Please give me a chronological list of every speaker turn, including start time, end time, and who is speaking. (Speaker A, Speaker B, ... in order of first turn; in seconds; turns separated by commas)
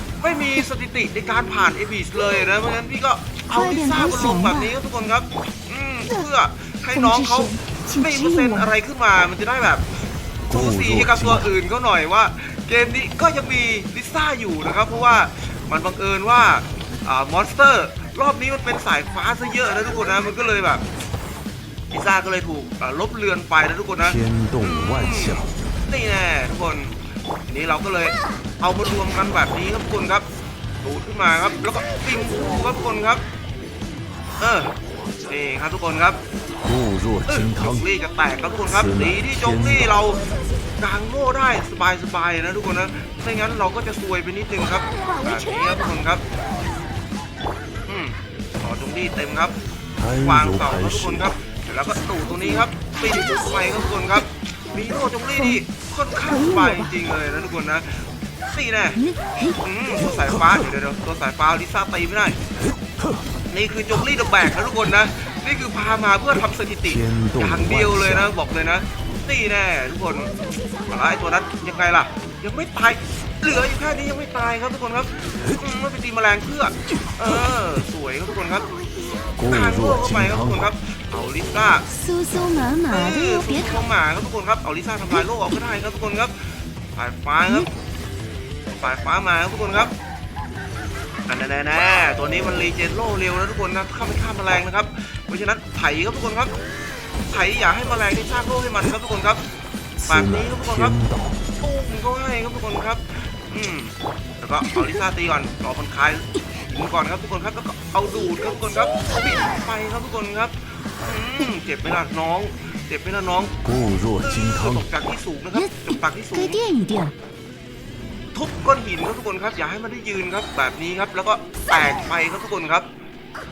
Speaker A: 0.2-9.9, Speaker B: 3.5-4.7, Speaker B: 6.9-8.7, Speaker A: 10.5-20.8, Speaker C: 10.5-11.5, Speaker A: 21.9-30.3, Speaker C: 24.0-25.5, Speaker A: 30.8-33.2, Speaker A: 34.4-34.7, Speaker A: 35.3-36.2, Speaker C: 36.6-37.9, Speaker A: 37.3-40.2, Speaker C: 38.7-39.9, Speaker A: 40.8-46.2, Speaker B: 45.1-45.5, Speaker A: 47.9-49.6, Speaker C: 50.0-51.3, Speaker A: 50.1-59.0, Speaker B: 52.2-53.5, Speaker B: 56.2-56.9, Speaker B: 59.0-59.6, Speaker A: 59.6-62.4, Speaker A: 63.5-78.7, Speaker C: 66.9-68.3, Speaker C: 79.4-80.6, Speaker A: 79.4-81.9, Speaker B: 81.9-83.8, Speaker A: 82.9-87.7, Speaker A: 88.7-89.9, Speaker A: 91.3-96.5, Speaker A: 97.3-99.4, Speaker C: 100.0-101.3, Speaker A: 100.1-101.0, Speaker A: 101.6-113.6, Speaker C: 113.6-114.8, Speaker A: 114.2-116.6, Speaker B: 115.5-117.1, Speaker A: 118.3-122.9